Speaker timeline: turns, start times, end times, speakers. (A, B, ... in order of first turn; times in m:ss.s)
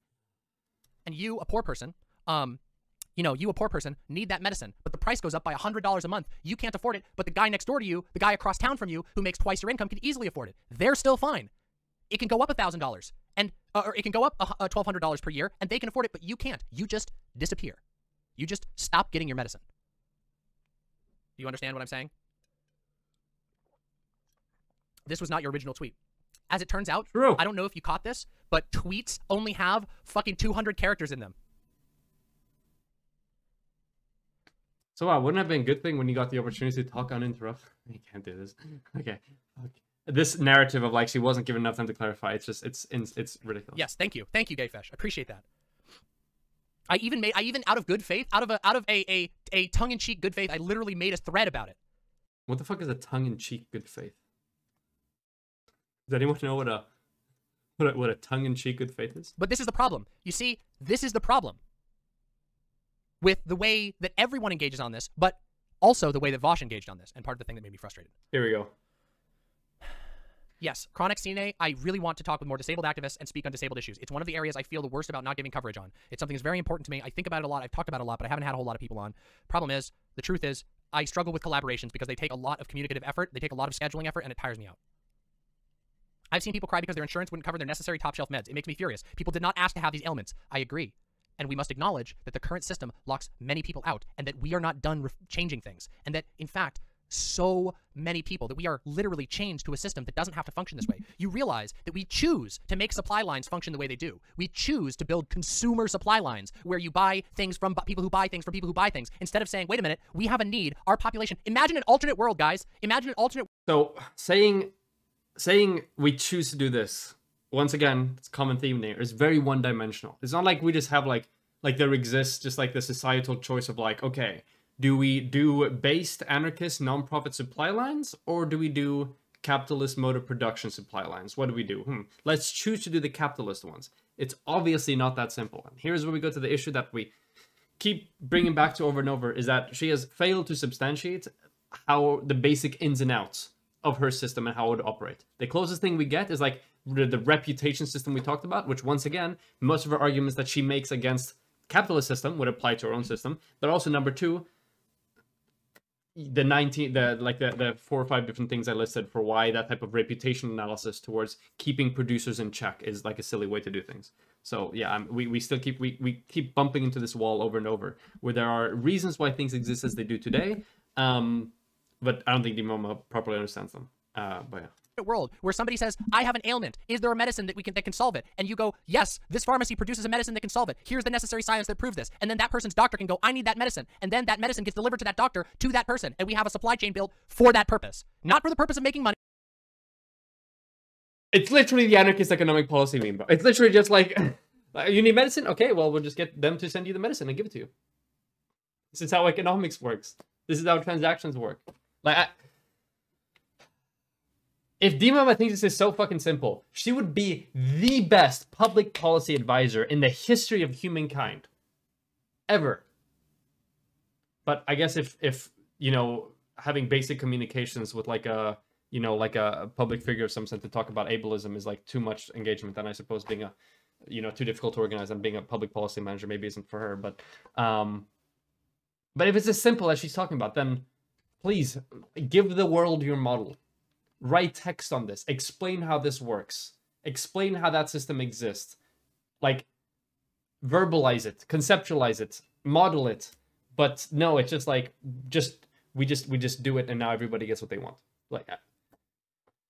0:01.0-0:02.6 A
0:03.2-0:11.5 A
0:12.1-0:17.8 A
0:18.4-0:19.6 A
0:21.4-0:22.1 A
0:25.1-0:25.9 A
0:26.5-0:31.4 A
0:27.1-0:27.4 B
0:35.0-0:43.8 B
0:43.8-0:45.4 A
0:46.9-0:51.8 A
0:52.5-0:54.2 B
0:56.1-0:56.9 B
0:57.8-0:59.4 B
0:59.4-1:01.6 A
1:03.2-1:08.1 A
1:08.3-1:08.7 B
1:10.6-1:24.8 A
1:26.3-1:53.5 A
1:53.7-1:54.7 B
1:55.4-2:17.1 B
2:17.8-2:34.5 B
2:36.2-2:54.7 B
2:55.0-3:09.2 A
3:11.3-3:17.7 B
3:18.9-3:22.4 B
3:24.8-3:31.5 B
3:32.5-3:32.8 B
3:34.5-3:43.6 B
3:44.1-3:48.1 B
3:49.2-3:50.9 B
3:51.4-3:53.6 B
3:54.2-3:58.8 B
3:59.4-3:59.7 B
4:00.6-4:08.6 B